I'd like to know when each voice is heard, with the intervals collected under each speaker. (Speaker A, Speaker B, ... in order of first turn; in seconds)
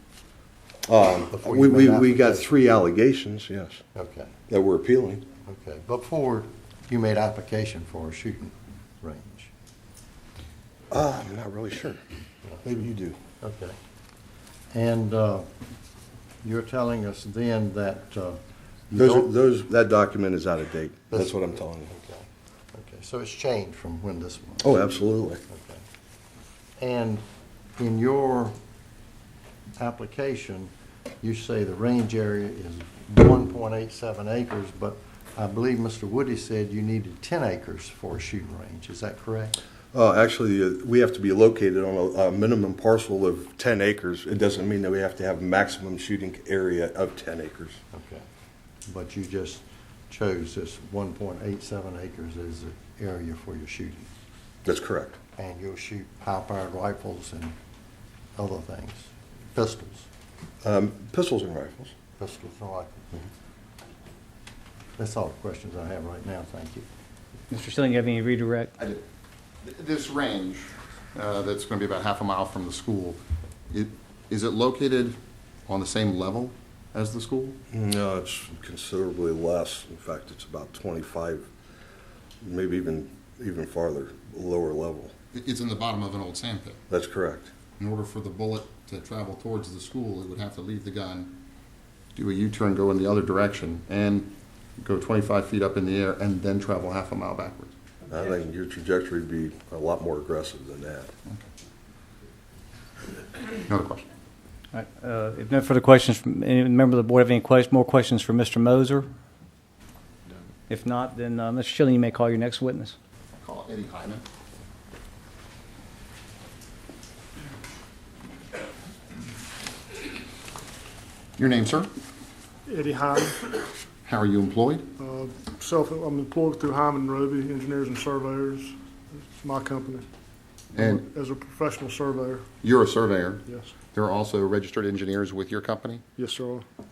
Speaker A: 0.9-3.8, 4.5-5.2, 10.9-12.0, 12.6-13.2, 18.9-21.9, 24.6-25.4, 39.9-47.8, 54.6-55.2, 60.6-61.9, 77.7-81.5, 82.4-85.1, 86.9-87.5, 98.1-101.1
Speaker B: 1.3-2.4, 3.9-4.3, 5.4-9.5, 13.4-13.8, 14.7-15.5, 16.4-18.4, 18.9-19.3, 21.1-24.7, 25.5-25.8, 26.8-27.2, 27.8-28.6, 29.8-30.7, 31.2-39.5, 47.9-48.2, 48.9-54.1, 55.4-57.5, 58.4-60.1, 62.2-63.2, 65.0-66.8
Speaker C: 67.5-68.7, 104.7-109.1, 110.7-113.0
Speaker D: 69.6-73.2, 73.7-75.2, 75.7-77.6, 85.3-86.8, 87.8-91.3, 92.1-97.7, 103.7-104.0, 113.4-114.2, 121.4-121.9, 124.0-124.9, 130.7-131.1, 132.6-136.0
Speaker E: 122.7-123.4, 125.0-130.1, 130.8-132.4, 133.5-133.7, 136.2-136.7